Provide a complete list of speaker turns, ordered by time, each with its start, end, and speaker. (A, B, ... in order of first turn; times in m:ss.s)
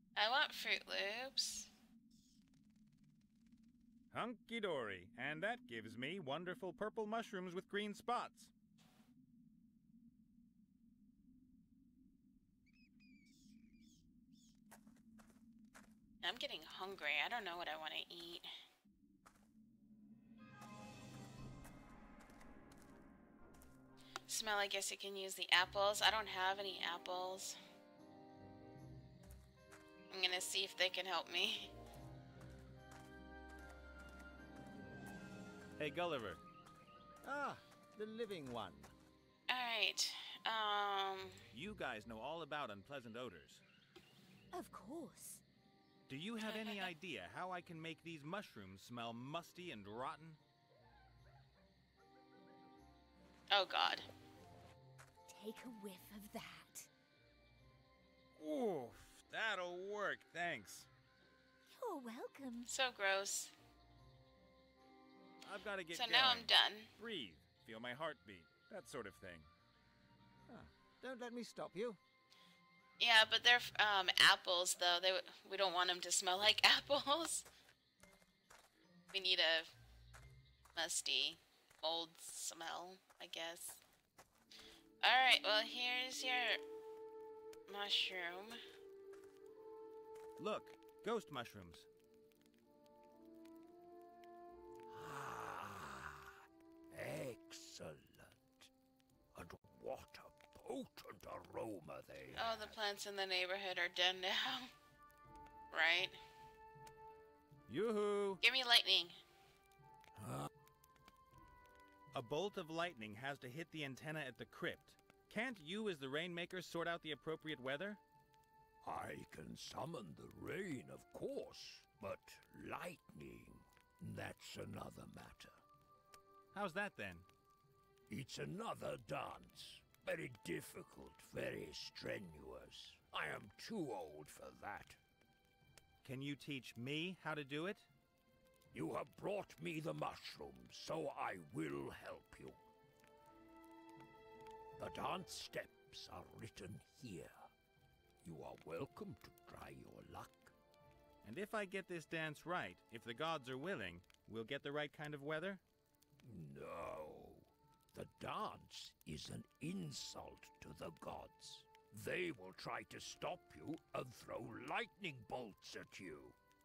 0:00.2-0:01.7 A
0:04.1-0:08.5 B
0:16.2-0:18.5 A
0:24.3-0:27.6 A
0:30.1-0:31.7 A
0:35.8-0:36.4 B
0:37.2-0:38.9 C
0:39.5-0:41.4 A
0:41.5-0:43.6 B
0:44.5-0:45.4 D
0:46.1-0:50.4 B
0:46.4-0:46.9 A
0:53.5-0:54.0 A
0:55.3-0:56.9 D
0:58.4-1:00.9 B
1:01.7-1:02.7 D
1:02.7-1:03.5 A
1:05.4-1:09.5 B
1:05.9-1:06.9 A
1:10.5-1:12.0 C
1:13.0-1:17.5 A
1:19.1-1:19.7 A
1:20.7-1:23.8 A
1:25.0-1:26.6 A
1:27.7-1:28.6 A
1:30.4-1:31.9 B
1:34.9-1:36.3 E
1:36.9-1:38.7 E
1:39.3-1:42.8 E
1:42.3-1:44.7 A
1:45.7-1:46.2 A
1:47.7-1:48.4 B
1:48.4-1:49.1 A
1:50.1-1:50.5 E
1:52.1-1:58.0 B
1:58.8-2:05.6 E
2:06.5-2:07.3 B
2:08.1-2:15.0 E
2:16.0-2:17.9 B
2:18.7-2:22.6 E
2:24.8-2:27.3 E
2:28.2-2:30.5 E
2:31.2-2:35.6 B
2:36.2-2:46.4 E